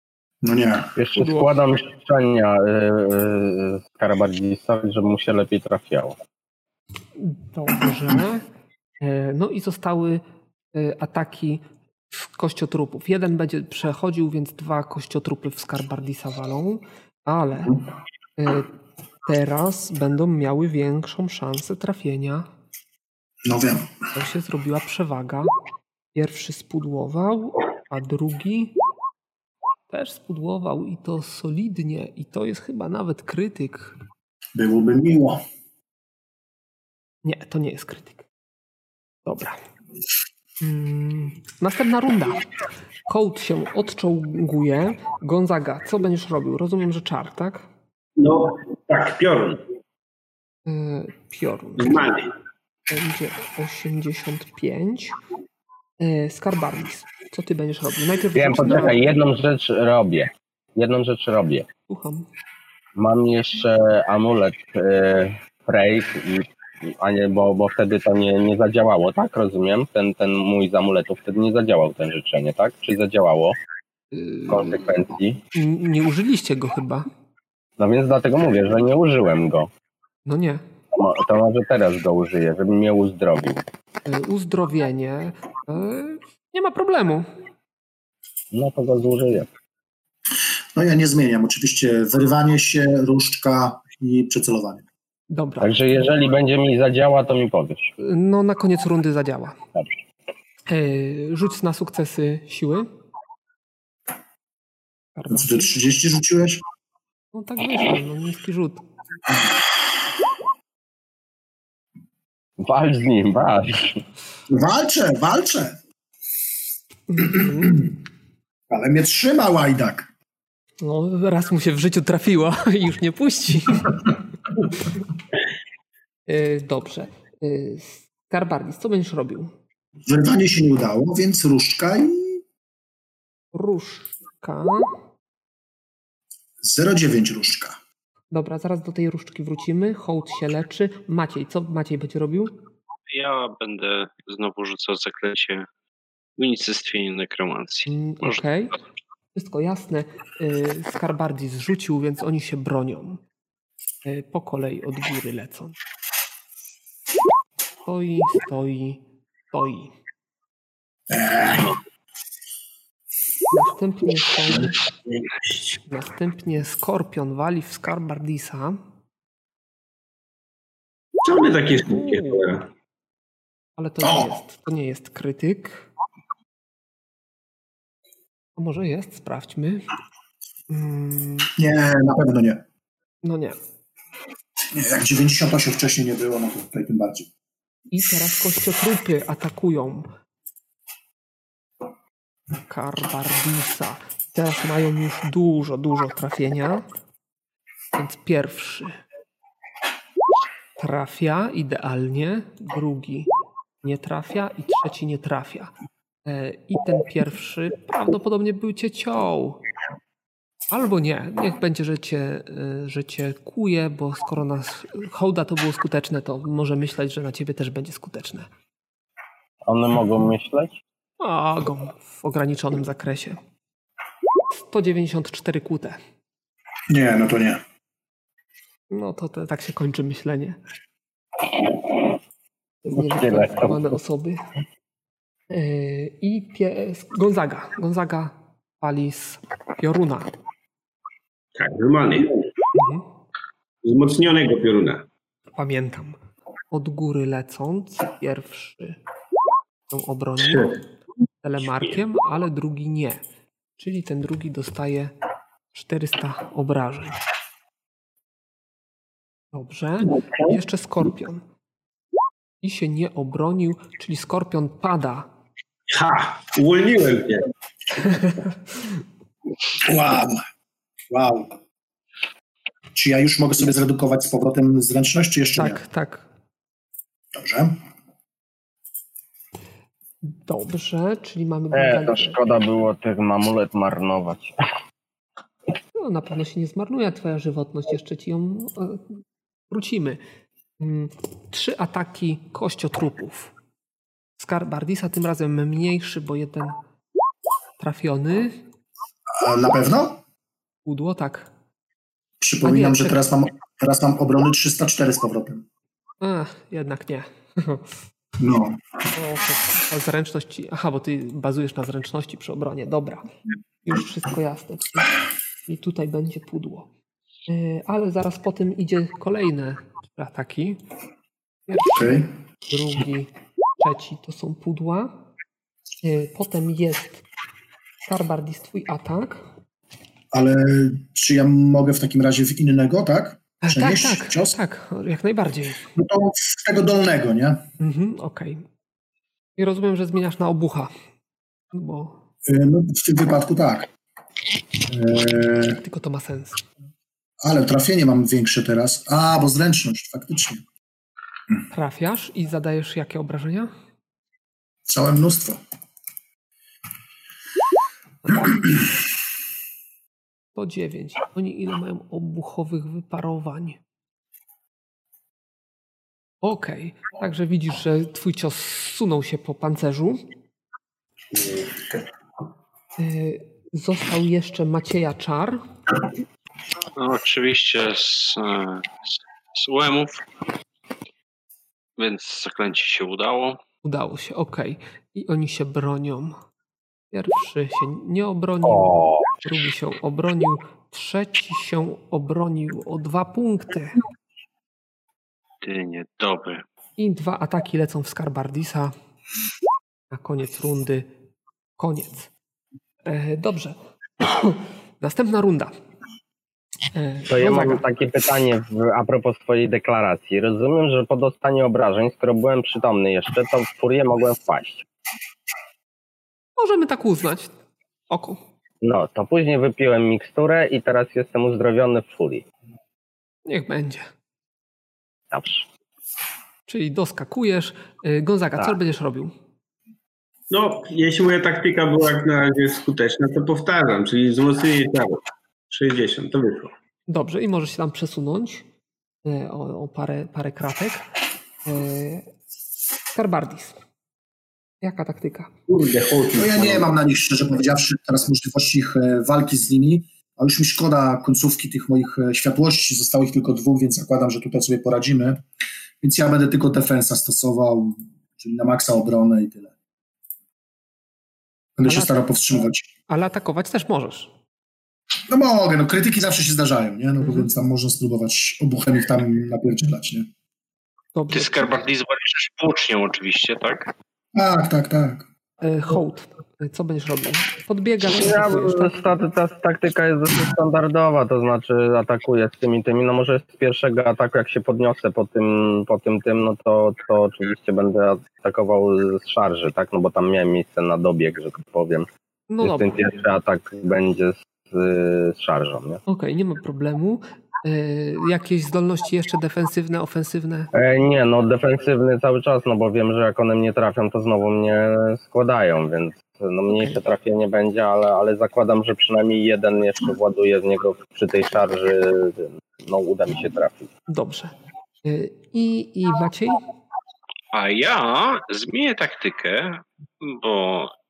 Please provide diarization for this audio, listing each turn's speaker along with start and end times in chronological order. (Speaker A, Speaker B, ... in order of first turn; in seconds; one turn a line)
Speaker A: 0.4-0.9
Speaker B: 0.9-6.2
Speaker C: 1.2-1.5
Speaker C: 7.2-8.4
Speaker C: 9.0-10.2
Speaker C: 10.7-17.8
Speaker C: 18.4-18.7
Speaker C: 19.2-22.4
Speaker A: 23.4-23.9
Speaker C: 24.1-25.5
Speaker C: 26.1-28.7
Speaker C: 29.9-34.0
Speaker A: 34.5-35.4
Speaker C: 37.2-38.2
Speaker C: 39.2-39.6
Speaker C: 40.6-42.5
Speaker C: 43.1-47.6
Speaker D: 48.2-49.6
Speaker C: 50.6-52.1
Speaker D: 51.8-52.3
Speaker C: 52.9-55.2
Speaker C: 56.0-59.1
Speaker B: 58.3-61.7
Speaker C: 61.9-62.2
Speaker B: 63.0-73.6
Speaker C: 74.1-74.9
Speaker B: 74.5-75.4
Speaker C: 75.5-77.1
Speaker B: 77.8-79.7
Speaker C: 80.2-80.6
Speaker B: 80.9-83.6
Speaker C: 84.0-87.3
Speaker B: 88.5-89.5
Speaker A: 90.7-94.8
Speaker C: 95.3-96.0
Speaker B: 95.6-97.9
Speaker C: 98.0-99.5
Speaker C: 100.7-102.9
Speaker C: 105.2-105.7
Speaker A: 105.3-106.6
Speaker C: 107.3-108.8
Speaker B: 112.6-114.0
Speaker A: 114.5-115.8
Speaker C: 117.1-117.9
Speaker A: 117.2-117.9
Speaker A: 118.7-120.1
Speaker C: 120.8-124.1
Speaker C: 126.3-129.5
Speaker A: 130.1-132.4
Speaker C: 133.5-134.9
Speaker A: 136.6-137.8
Speaker C: 138.3-142.6
Speaker E: 143.1-145.7
Speaker E: 146.4-148.4
Speaker C: 147.9-148.8
Speaker C: 149.3-153.2
Speaker C: 154.0-155.8
Speaker C: 157.8-159.9
Speaker A: 161.1-161.7
Speaker C: 163.5-164.7
Speaker C: 165.9-168.8
Speaker D: 171.2-172.7
Speaker C: 171.9-172.4
Speaker C: 173.8-175.9
Speaker A: 174.0-174.3
Speaker C: 178.6-179.8
Speaker C: 180.7-181.5
Speaker A: 181.6-182.6
Speaker C: 183.2-183.6
Speaker A: 184.7-187.3
Speaker C: 187.9-190.1
Speaker C: 192.7-196.8
Speaker C: 197.9-199.0
Speaker C: 200.8-203.3
Speaker C: 203.8-205.7
Speaker C: 206.2-209.6
Speaker C: 210.7-218.5
Speaker B: 219.7-220.8
Speaker C: 221.2-223.4
Speaker C: 224.6-226.0
Speaker A: 226.9-227.6
Speaker C: 228.9-230.6
Speaker C: 232.8-234.4
Speaker B: 232.9-233.9
Speaker C: 235.5-240.3
Speaker D: 241.5-242.5
Speaker C: 242.7-243.0
Speaker D: 243.8-245.1
Speaker C: 245.5-246.2
Speaker C: 246.7-249.0
Speaker C: 249.9-250.8
Speaker C: 251.4-253.2
Speaker C: 253.8-255.1
Speaker C: 255.7-257.2
Speaker C: 259.5-261.4
Speaker C: 262.6-265.3
Speaker D: 265.9-267.5
Speaker C: 268.0-268.9
Speaker A: 269.8-270.4
Speaker A: 271.1-271.5
Speaker A: 272.9-275.8
Speaker C: 275.6-276.3
Speaker A: 277.3-277.8
Speaker C: 280.2-282.4
Speaker B: 281.7-284.6
Speaker C: 286.0-290.2
Speaker C: 290.8-293.5
Speaker C: 294.4-296.8
Speaker C: 297.8-298.6
Speaker A: 299.4-300.2
Speaker C: 300.9-301.5
Speaker A: 302.4-305.6
Speaker C: 302.6-303.2
Speaker C: 306.2-307.9
Speaker A: 308.4-308.8
Speaker C: 309.1-313.2
Speaker C: 313.8-315.1
Speaker C: 315.7-316.9
Speaker C: 317.5-320.8
Speaker C: 321.7-325.1
Speaker A: 321.9-322.3
Speaker C: 326.0-327.2
Speaker C: 328.1-329.4
Speaker A: 330.3-334.6
Speaker C: 333.6-335.9
Speaker A: 335.9-337.6
Speaker C: 337.8-338.6
Speaker C: 339.6-340.9
Speaker C: 341.7-342.2
Speaker A: 342.4-343.9
Speaker A: 344.9-345.8
Speaker C: 345.8-346.6
Speaker A: 347.4-350.6
Speaker C: 351.7-353.7
Speaker A: 354.9-355.6
Speaker C: 358.3-358.5
Speaker C: 360.5-363.8
Speaker C: 366.4-370.2
Speaker D: 371.4-371.7
Speaker C: 373.0-375.6
Speaker E: 376.9-380.2
Speaker E: 382.0-383.6
Speaker C: 383.8-386.4
Speaker C: 387.1-394.0
Speaker B: 388.6-389.4
Speaker E: 395.6-396.6
Speaker C: 397.0-398.9
Speaker C: 400.1-401.1
Speaker C: 401.8-402.3
Speaker C: 403.1-405.7
Speaker C: 406.9-407.8
Speaker B: 407.3-414.8
Speaker C: 416.6-417.5
Speaker C: 418.1-418.4
Speaker B: 418.8-422.4
Speaker C: 423.4-424.1
Speaker B: 425.3-425.6
Speaker C: 426.7-429.3
Speaker D: 430.5-436.7
Speaker C: 437.1-438.6
Speaker C: 439.2-441.1
Speaker C: 441.6-442.3
Speaker C: 443.1-443.8
Speaker C: 444.8-445.5
Speaker D: 445.7-446.9
Speaker A: 446.3-455.4
Speaker A: 456.0-459.7
Speaker A: 461.8-462.9
Speaker C: 461.8-462.2
Speaker C: 463.1-464.3
Speaker A: 465.3-470.3
Speaker C: 467.2-467.5
Speaker C: 471.1-471.7
Speaker E: 471.3-473.9
Speaker A: 474.3-475.2
Speaker C: 475.6-479.0
Speaker B: 478.1-492.1
Speaker C: 492.5-492.9
Speaker B: 492.6-496.0
Speaker C: 496.1-500.7
Speaker B: 500.7-513.9
Speaker C: 506.7-507.0
Speaker C: 514.1-514.5
Speaker C: 515.0-516.6
Speaker E: 517.5-520.9